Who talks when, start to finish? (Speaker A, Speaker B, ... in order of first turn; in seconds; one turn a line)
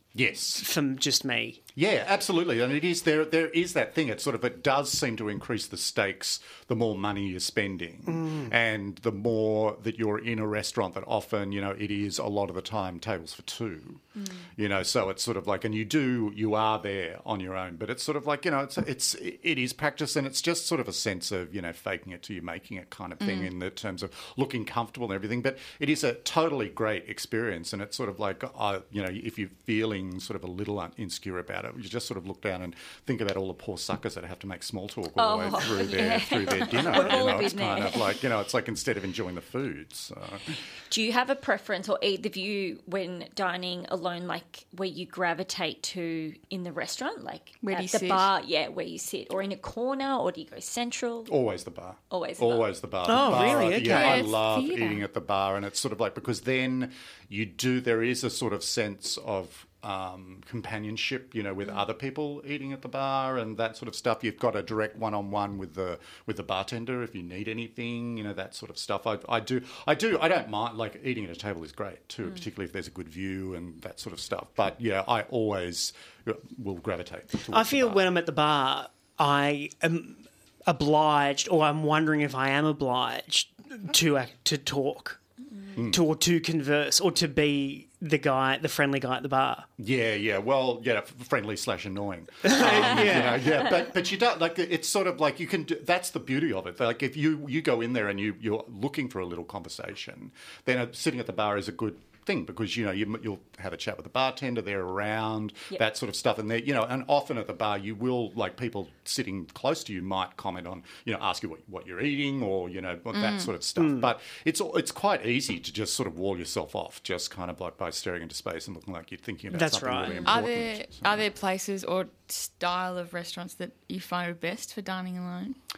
Speaker A: 0.1-0.6
Speaker B: 0.6-1.6
Speaker A: 1.7-14.0
Speaker B: 8.1-8.5
Speaker A: 14.6-40.5
Speaker C: 23.2-23.5
Speaker D: 35.1-38.2
Speaker B: 36.9-37.4
Speaker D: 40.9-51.3
Speaker C: 47.6-48.2
Speaker A: 51.3-78.0
Speaker D: 52.1-52.7
Speaker B: 53.0-54.3
Speaker C: 53.8-55.0
Speaker B: 77.5-85.2
Speaker A: 85.8-86.0
Speaker B: 85.8-89.7
Speaker A: 89.8-121.2
Speaker B: 92.4-93.5
Speaker C: 113.1-113.5
Speaker B: 113.8-114.1
Speaker B: 119.5-120.3
Speaker C: 120.2-125.6